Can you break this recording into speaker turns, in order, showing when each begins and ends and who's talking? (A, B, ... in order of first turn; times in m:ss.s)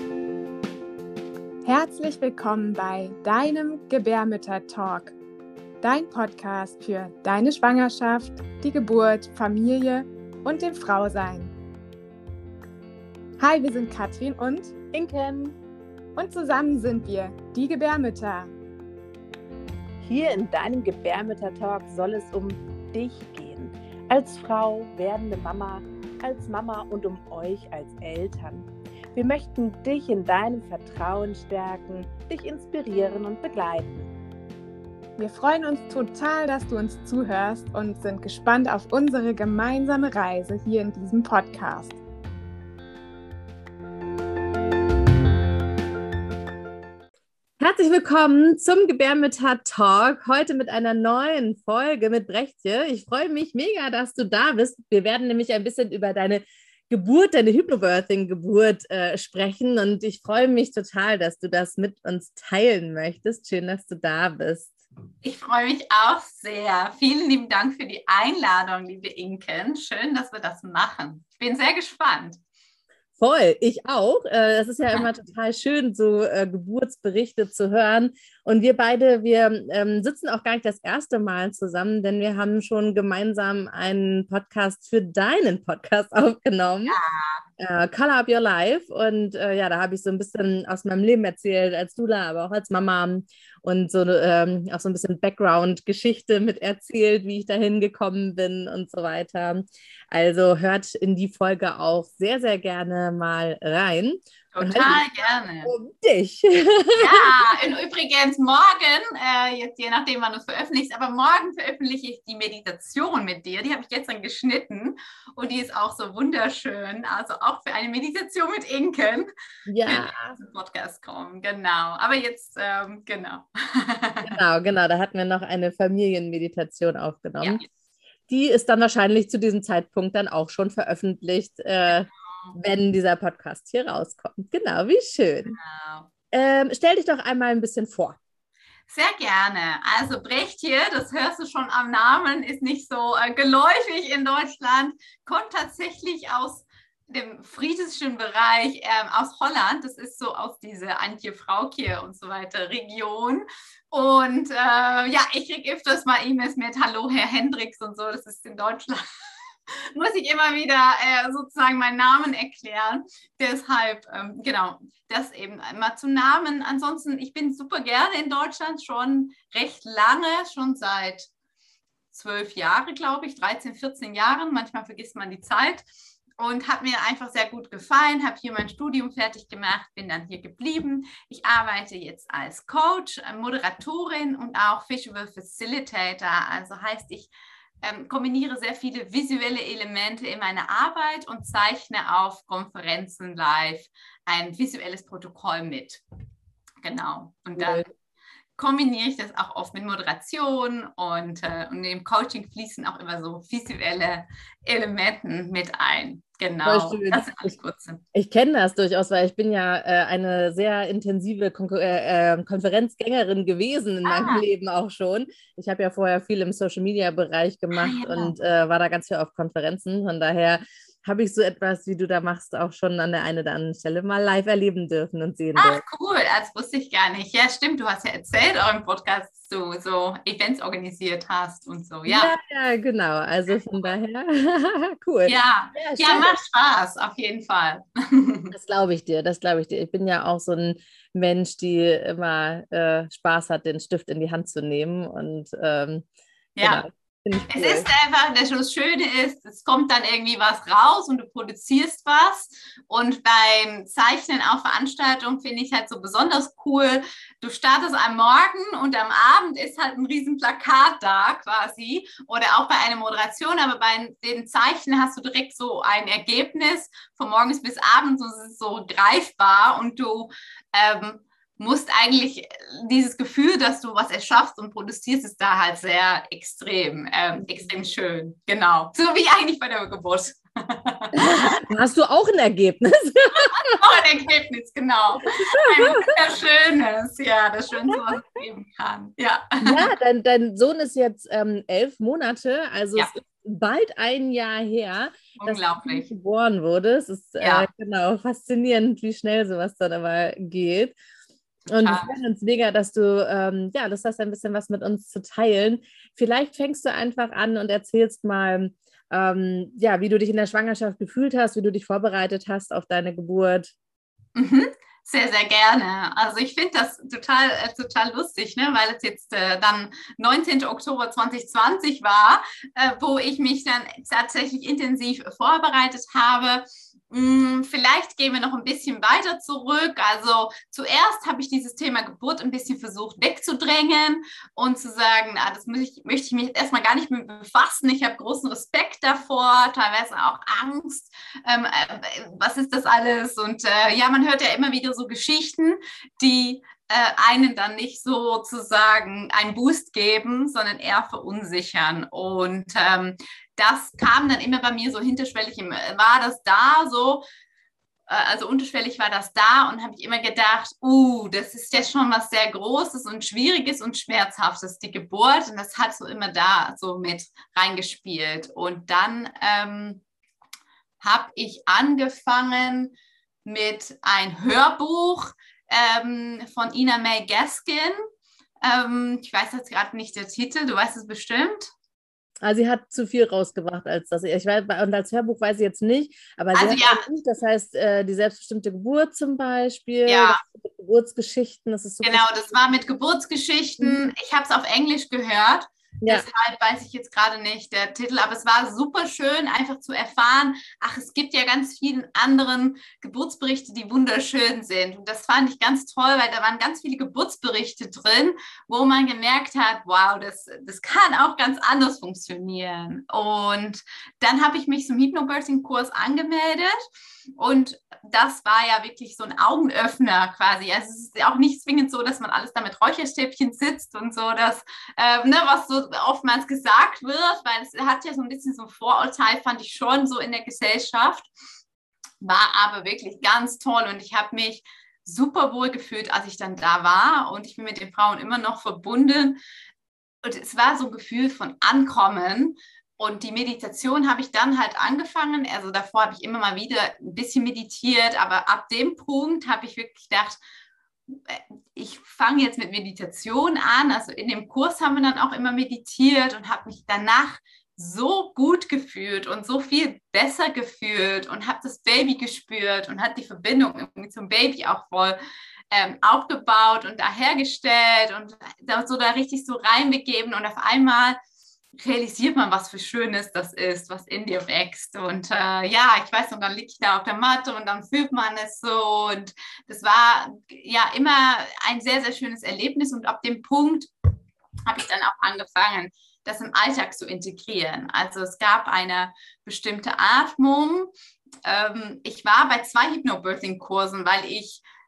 0:01.6-0:05.2 A
0:05.8-0:11.5 A
0:13.4-0:15.2 A
0:15.0-0:15.5 B
0:16.2-0:18.5 A
0:20.0-0:34.1 B
0:35.2-0:42.0 A
0:47.6-1:04.8 C
1:05.2-1:12.4 D
1:13.2-1:27.0 C
1:26.9-1:27.4 D
1:27.6-1:45.0 C
1:44.5-1:45.7 D
1:45.6-1:47.3 C
1:47.0-1:59.3 D
1:59.7-2:00.4 C
1:59.9-2:04.3 D
2:04.2-2:07.6 C
2:07.4-2:07.6 D
2:08.3-2:15.6 C
2:15.5-2:16.1 D
2:16.3-2:18.2 C
2:18.9-2:39.0 D
2:40.0-2:51.3 D
2:52.1-2:55.8 D
2:56.4-3:07.3 D
3:07.8-3:16.0 D
3:16.8-3:17.8 D
3:17.6-3:17.8 C
3:18.6-3:28.0 D
3:26.6-3:27.5 C
3:28.1-3:45.8 C
3:34.1-3:34.4 D
3:37.7-3:38.3 D
3:45.6-3:52.3 D
3:52.1-3:56.4 C
3:55.2-3:58.5 D
3:58.5-4:06.1 C
4:06.6-4:06.8 D
4:06.6-4:07.9 C
4:07.5-4:41.6 D
4:41.1-4:43.8 C
4:43.6-4:49.9 D
4:45.6-4:45.8 C
4:49.6-5:01.0 C
4:55.4-4:56.1 D
4:57.4-4:57.7 D
5:01.7-5:02.2 D
5:01.7-5:13.7 C
5:14.4-5:57.2 D
5:58.1-6:10.0 D
6:11.0-6:18.0 D
6:18.6-6:21.7 D
6:22.4-6:32.4 C
6:26.5-6:27.0 D
6:30.1-6:30.4 D
6:32.0-6:56.8 D
6:36.0-6:36.3 C
6:57.4-7:11.3 D
7:12.2-7:19.4 D
7:20.2-7:30.4 D
7:31.1-7:45.2 D
7:45.7-7:51.2 D
7:51.8-8:03.9 D
8:04.7-8:10.9 D
8:11.4-8:14.6 D